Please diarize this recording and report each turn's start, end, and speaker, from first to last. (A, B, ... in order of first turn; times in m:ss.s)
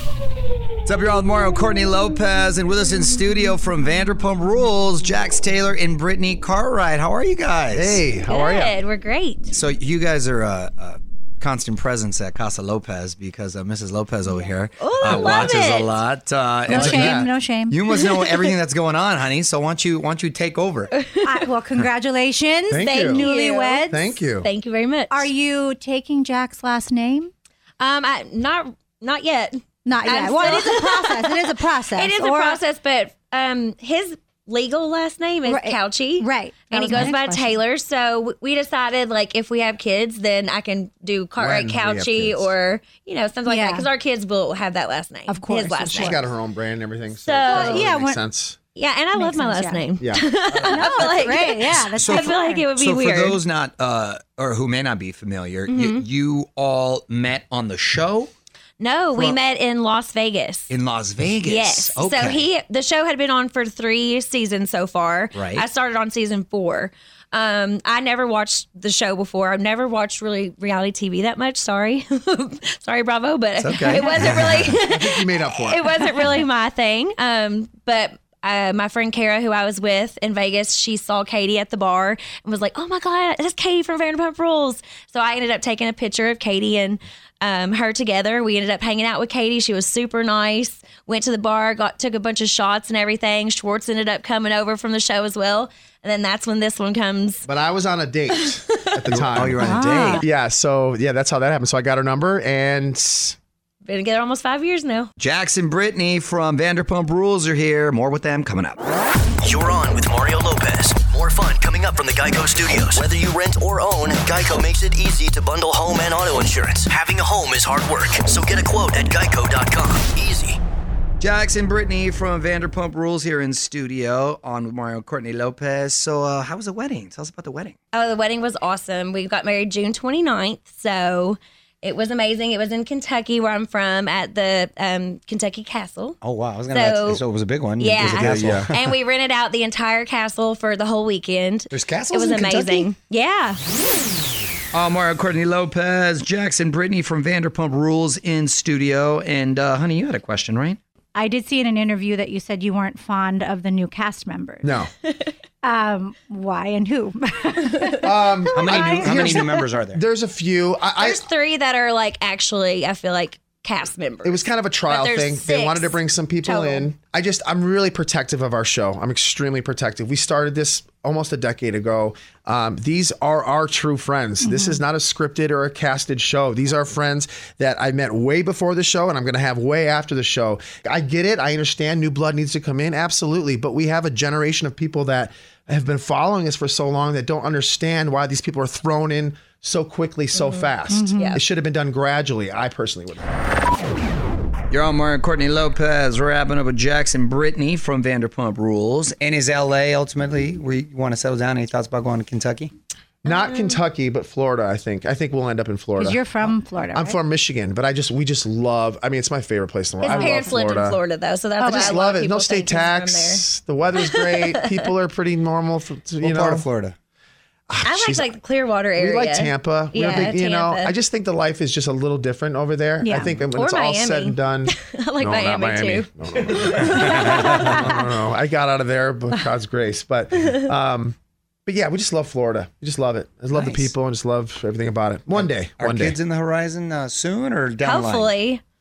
0:00.8-0:08.0 A
0:07.7-0:08.7 B
0:08.2-0:09.5 C
0:09.5-0:20.9 A
0:14.8-0:16.0 C
0:15.0-0:15.5 B
0:16.7-0:17.3 B
0:16.7-0:17.8 D
0:20.9-0:21.4 C
0:21.2-0:24.2 D
0:22.7-0:23.2 B
0:22.8-0:25.3 C
0:23.9-0:24.5 B
0:25.1-0:27.3 D
0:27.8-0:46.2 C
0:29.8-0:32.6 D
0:35.4-0:37.6 D
0:41.4-0:42.5 B
0:43.4-0:43.9 D
0:45.3-0:46.2 D
0:45.7-0:48.6 B
0:47.2-0:47.8 C
0:47.5-0:48.2 D
0:48.8-0:53.4 C
0:49.1-0:49.8 D
0:50.0-0:51.0 B
0:50.5-0:52.7 D
0:51.6-0:58.3 A
0:55.7-0:56.0 C
0:58.8-1:00.7 C
1:00.7-1:02.5 A
1:01.4-1:37.4 C
1:05.3-1:05.6 A
1:13.6-1:14.7 A
1:14.4-1:16.3 B
1:37.4-1:43.4 B
1:38.4-1:38.8 C
1:39.1-1:40.2 A
1:39.6-1:40.2 D
1:43.8-1:45.1 C
1:45.2-1:48.8 A
1:49.4-2:00.6 E
2:01.2-2:07.7 A
2:07.9-2:16.2 C
2:16.2-2:18.7 A
2:16.7-2:17.2 C
2:17.8-2:23.6 C
2:18.1-2:18.7 B
2:21.7-2:22.9 A
2:24.7-2:30.8 A
2:31.1-2:34.8 D
2:34.6-2:34.9 B
2:35.6-2:39.6 D
2:38.0-2:41.2 B
2:38.5-2:40.0 A
2:41.0-2:46.9 C
2:44.2-3:13.3 B
2:54.4-2:54.8 D
3:10.9-3:11.3 D
3:14.7-3:22.7 A
3:23.2-3:31.0 B
3:23.3-3:23.8 C
3:26.0-3:27.2 D
3:30.0-3:34.9 C
3:30.0-3:30.5 D
3:31.6-3:36.7 B
3:31.6-3:32.0 D
3:36.2-3:37.0 A
3:37.7-3:38.4 B
3:37.8-3:40.9 C
3:38.9-3:56.2 B
3:43.0-3:43.3 D
3:43.5-3:47.8 C
3:53.5-3:53.9 A
3:55.3-3:58.3 A
3:57.8-3:58.6 C